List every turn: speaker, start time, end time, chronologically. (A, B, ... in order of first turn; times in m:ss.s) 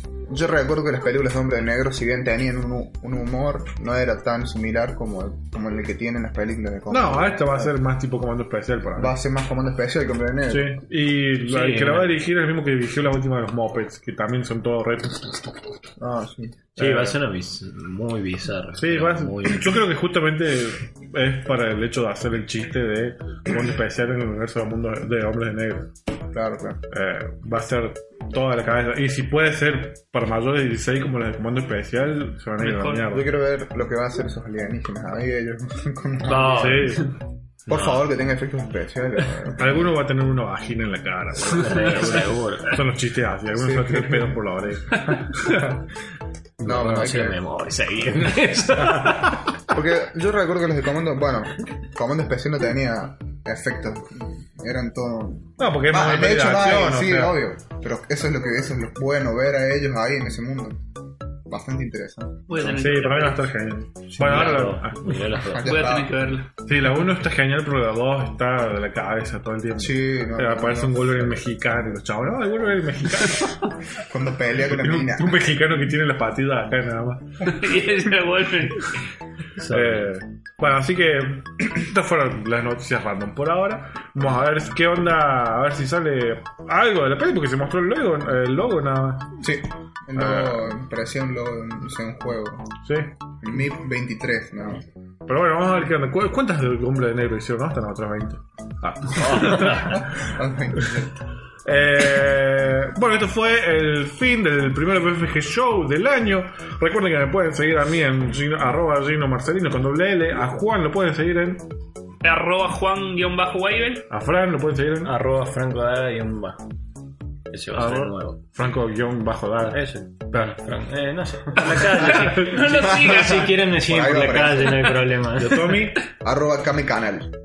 0:00.3-0:07.7 A
0:06.9-0:09.1 B
0:09.0-0:10.8 A
0:10.5-0:15.6 B
0:11.4-0:12.2 C
0:16.0-0:16.7 A
0:16.8-0:19.8 C
0:16.8-0:17.2 B
0:18.8-0:25.9 B
0:26.3-0:26.8 A
0:26.9-0:33.3 B
0:32.6-0:33.1 D
0:33.1-0:36.9 A
0:36.2-0:37.1 C
0:36.4-0:37.1 B
0:37.7-0:38.0 C
0:37.7-0:39.9 A
0:39.6-0:45.7 B
0:41.4-0:42.8 C
0:43.5-0:44.3 A
0:45.1-0:45.9 A
0:46.6-0:47.4 A
0:46.6-0:49.5 C
0:49.7-1:00.8 A
0:55.6-0:57.4 B
1:01.5-1:02.4 A
1:02.5-1:03.4 D
1:02.6-1:05.3 B
1:04.1-1:05.9 C
1:05.5-1:06.1 A
1:05.6-1:06.5 D
1:06.6-1:13.6 B
1:09.8-1:11.4 A
1:14.0-1:15.4 A
1:14.6-1:17.5 B
1:17.4-1:19.0 D
1:19.6-1:20.1 C
1:19.7-1:29.4 B
1:29.4-1:32.7 A
1:30.2-1:30.7 B
1:32.8-1:33.1 B
1:33.4-1:34.8 A
1:35.2-1:40.1 B
1:39.2-1:39.9 C
1:39.3-1:41.2 A
1:41.6-1:51.6 B
1:52.2-1:54.1 D
1:54.1-1:55.1 B
1:55.0-1:56.6 C
1:57.5-1:58.4 C
1:57.7-1:59.8 B
1:59.7-2:05.8 C
2:01.9-2:03.6 D
2:03.6-2:04.9 A
2:05.3-2:06.0 B
2:06.2-2:07.3 A